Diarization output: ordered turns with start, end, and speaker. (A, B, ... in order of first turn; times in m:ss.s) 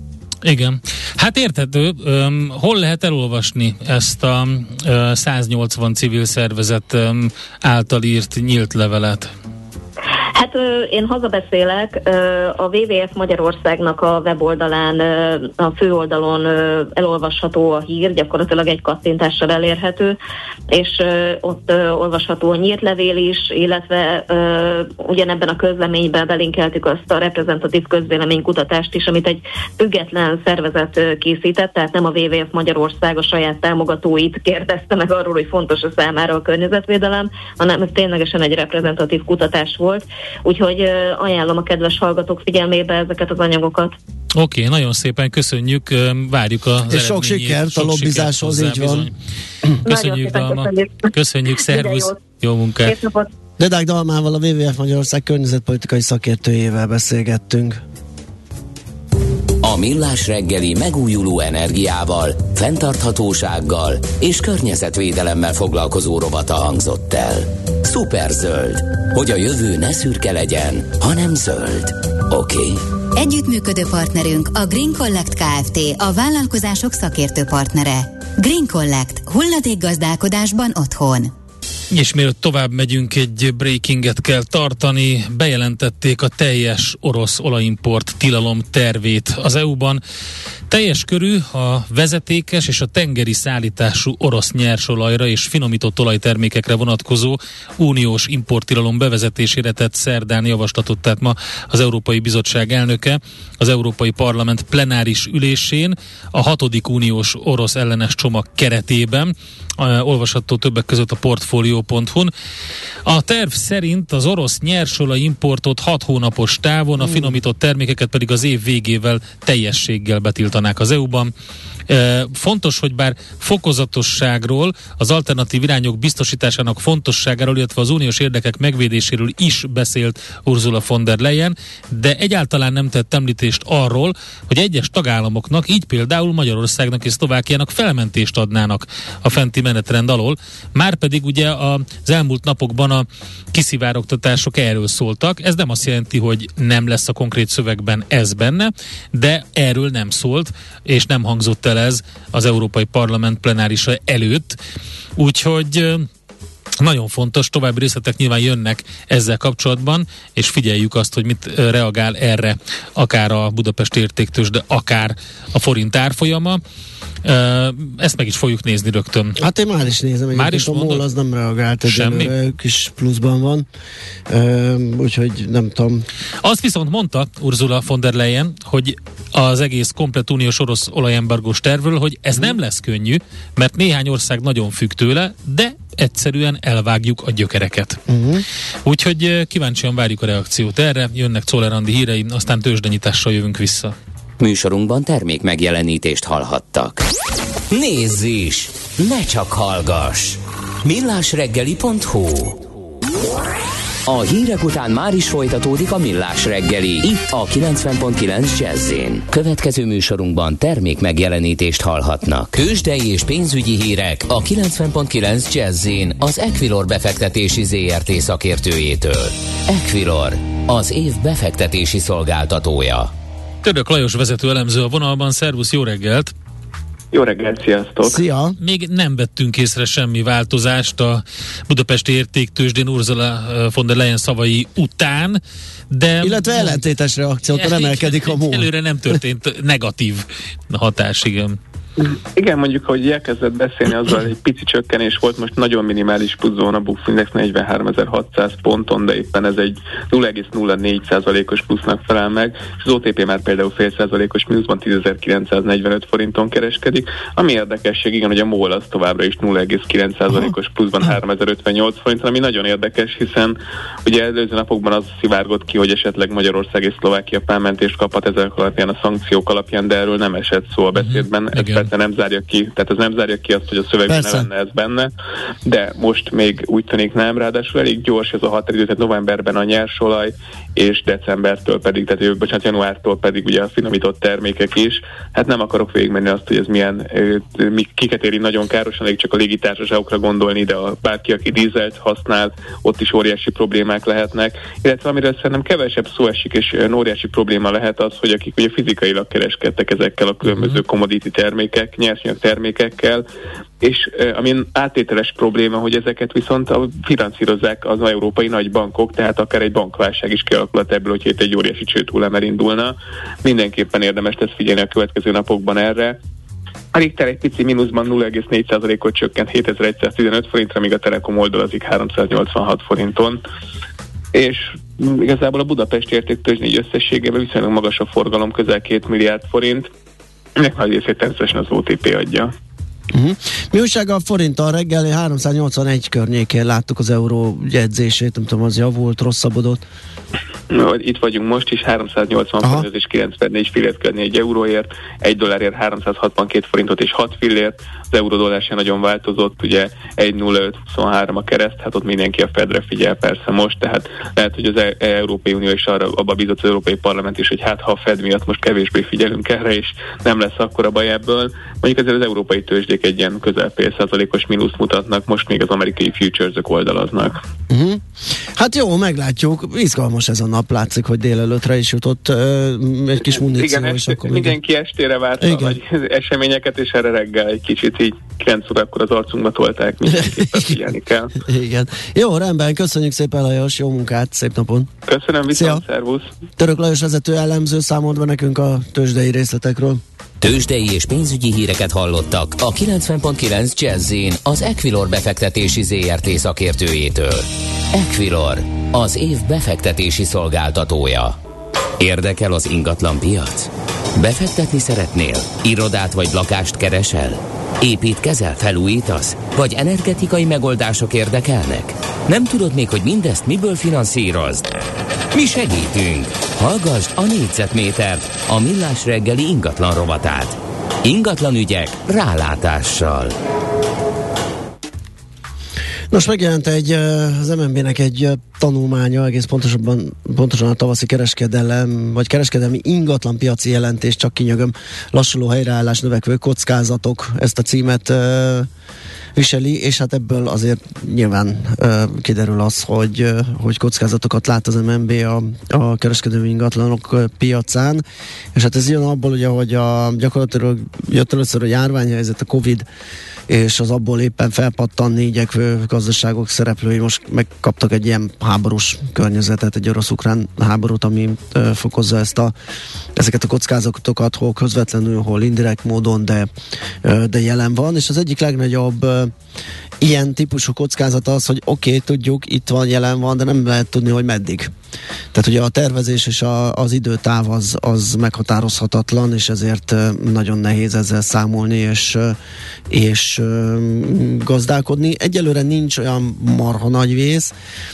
0:00.4-0:09.3 A
0:10.4-0:20.2 B
0:20.7-0:44.0 B
0:44.4-0:49.1 A
0:46.9-0:49.1 C
0:49.8-0:52.9 A
0:49.8-0:52.2 B
0:52.8-0:53.3 B
0:53.6-0:57.8 C
0:59.6-1:12.8 D
1:13.2-1:21.3 E
1:21.9-1:30.0 A
1:30.7-1:52.3 A
1:53.1-2:01.3 A
2:01.9-2:34.6 A
2:35.2-2:36.1 A
2:36.8-2:46.6 A
2:47.2-2:49.4 A
2:49.4-2:53.7 C
2:50.3-2:51.0 A
2:51.9-2:52.3 A
2:54.3-2:56.1 C
2:56.4-3:08.0 A
3:08.1-3:08.4 C
3:08.8-3:14.0 A
3:14.4-3:17.1 D
3:17.7-3:22.6 D
3:24.1-3:43.1 D
3:43.6-3:46.3 A
3:47.1-3:48.2 F
3:48.0-3:48.6 C
3:48.6-3:55.4 A
3:55.9-3:56.8 A
3:56.2-3:58.7 C
3:57.5-4:01.6 A
4:02.0-4:35.1 F
4:31.0-4:31.9 A
4:34.1-4:34.5 C
4:35.6-5:03.2 F
5:00.4-5:00.8 A
5:03.8-5:16.2 F
5:16.9-5:23.4 F
5:24.3-5:29.9 F
5:30.6-5:32.5 F
5:33.1-5:39.8 C
5:40.7-6:07.4 F
6:07.7-6:08.0 C
6:08.6-6:14.6 C
6:13.5-6:21.4 F
6:15.4-6:15.8 C
6:20.1-6:20.8 C
6:21.4-6:24.9 C
6:25.1-6:26.3 F
6:25.5-6:25.8 C
6:26.6-6:30.0 C
6:30.4-6:41.4 D
6:42.0-6:54.7 D
6:55.3-7:03.4 D
7:06.1-7:18.7 C
7:19.4-7:28.0 C
7:28.5-7:32.8 C
7:33.5-7:42.5 C
7:43.2-7:46.5 C
7:47.0-7:49.3 C
7:50.0-7:54.7 C
7:55.3-8:02.4 C
8:02.9-8:07.5 C